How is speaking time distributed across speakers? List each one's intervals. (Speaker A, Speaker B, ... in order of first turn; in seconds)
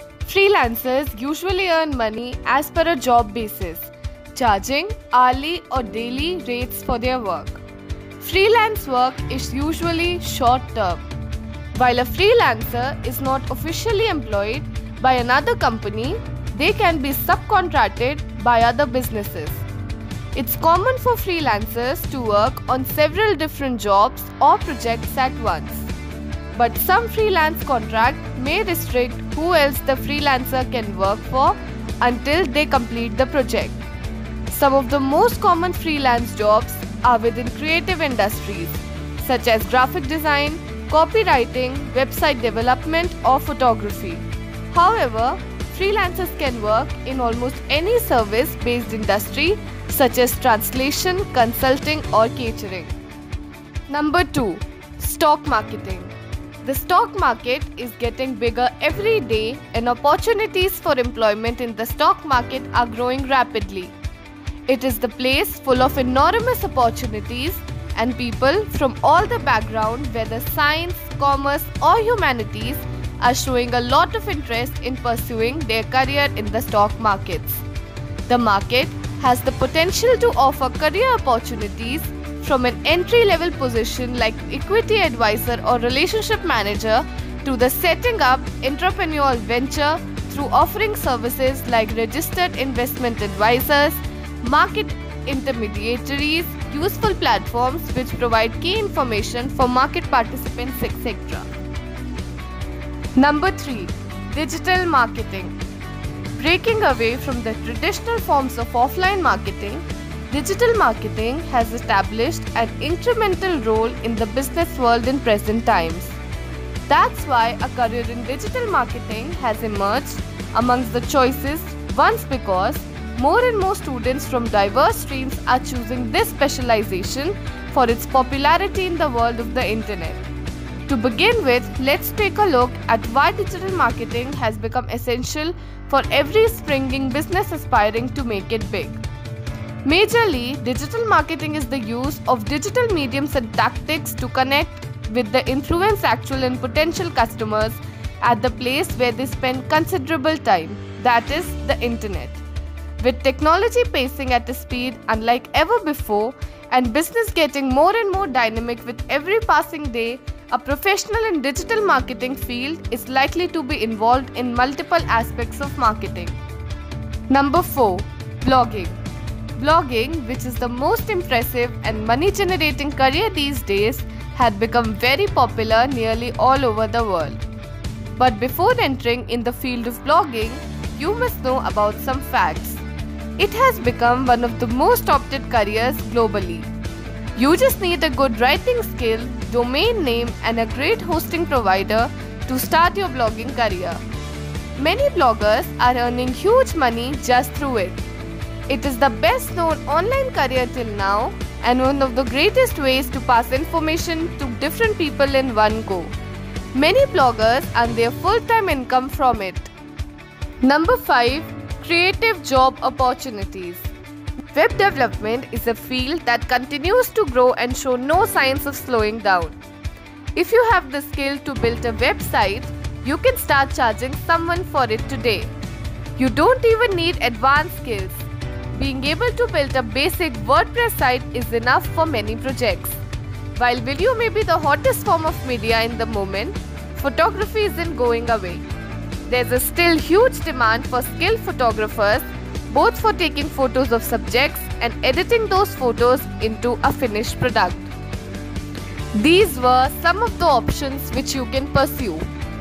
Speaker A: 0.2-7.6, 8.2-11.0, 11.7-19.6, 20.3-25.9, 26.5-33.8, 34.5-52.9, 53.9-63.9, 64.7-77.6, 78.3-101.5, 103.2-105.5, 106.4-116.2, 116.9-130.2, 130.9-139.0, 139.8-152.4, 153.0-166.4, 167.3-169.0, 169.6-177.4, 178.2-182.8, 183.4-186.7, 187.3-194.0, 194.8-198.0, 198.7-206.1, 206.7-209.7, 210.6-213.9, 214.5-219.6, 220.3-225.5, 226.2-233.0, 233.5-238.7, 239.2-247.9, 249.1-252.3